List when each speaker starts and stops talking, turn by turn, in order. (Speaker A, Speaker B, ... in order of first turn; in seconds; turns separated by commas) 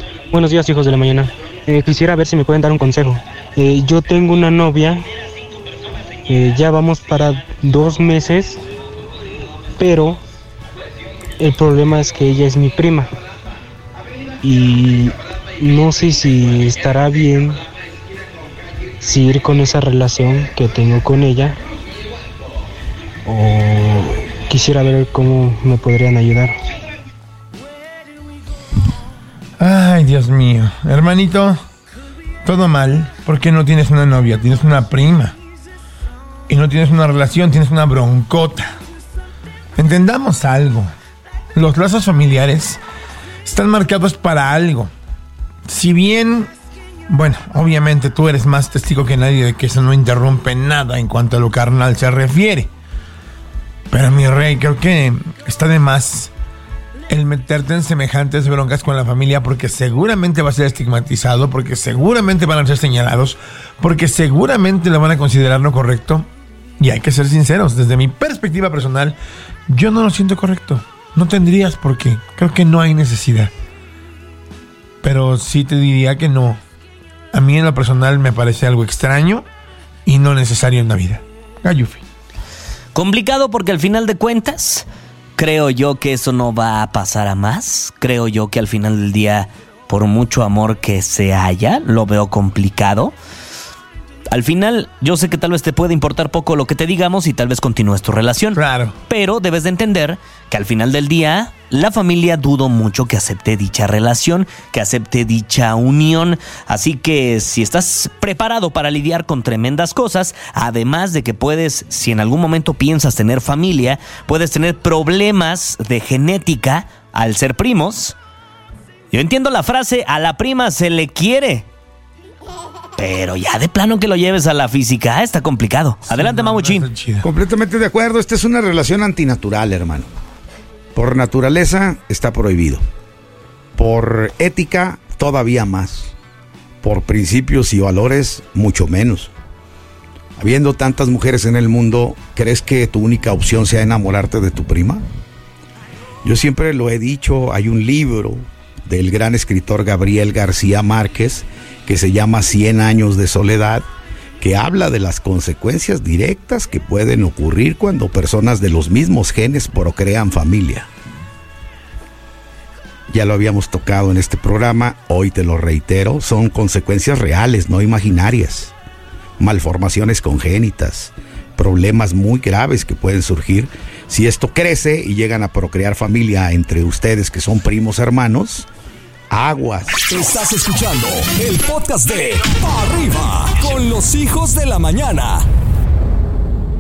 Speaker A: 0.3-5.0, Speaker A: 6.3-8.6, Speaker A: 9.8-10.2, Speaker A: 11.4-13.1, Speaker A: 14.4-17.6, Speaker A: 19.0-21.6, Speaker A: 23.3-26.6, Speaker B: 29.6-31.6, Speaker B: 32.4-35.4, Speaker B: 36.5-38.7, Speaker B: 39.8-40.9, Speaker B: 41.5-42.8, Speaker B: 43.5-44.9, Speaker B: 45.7-46.5, Speaker B: 47.1-52.7, Speaker B: 53.9-56.3, Speaker B: 57.1-66.3, Speaker B: 66.8-69.2, Speaker B: 69.7-73.5, Speaker B: 75.0-76.6, Speaker B: 77.3-79.5, Speaker B: 80.1-82.0, Speaker C: 83.0-93.1, Speaker C: 94.3-118.2, Speaker B: 98.5-99.0, Speaker C: 119.1-121.7, Speaker C: 123.0-126.9, Speaker B: 126.1-127.3, Speaker D: 127.2-130.1, Speaker D: 130.9-132.8, Speaker D: 133.8-136.2, Speaker D: 136.8-139.3, Speaker D: 140.4-145.1, Speaker D: 146.2-153.9, Speaker D: 154.4-160.9, Speaker D: 163.1-168.7, Speaker D: 169.4-178.7, Speaker D: 179.3-180.0, Speaker E: 180.1-185.4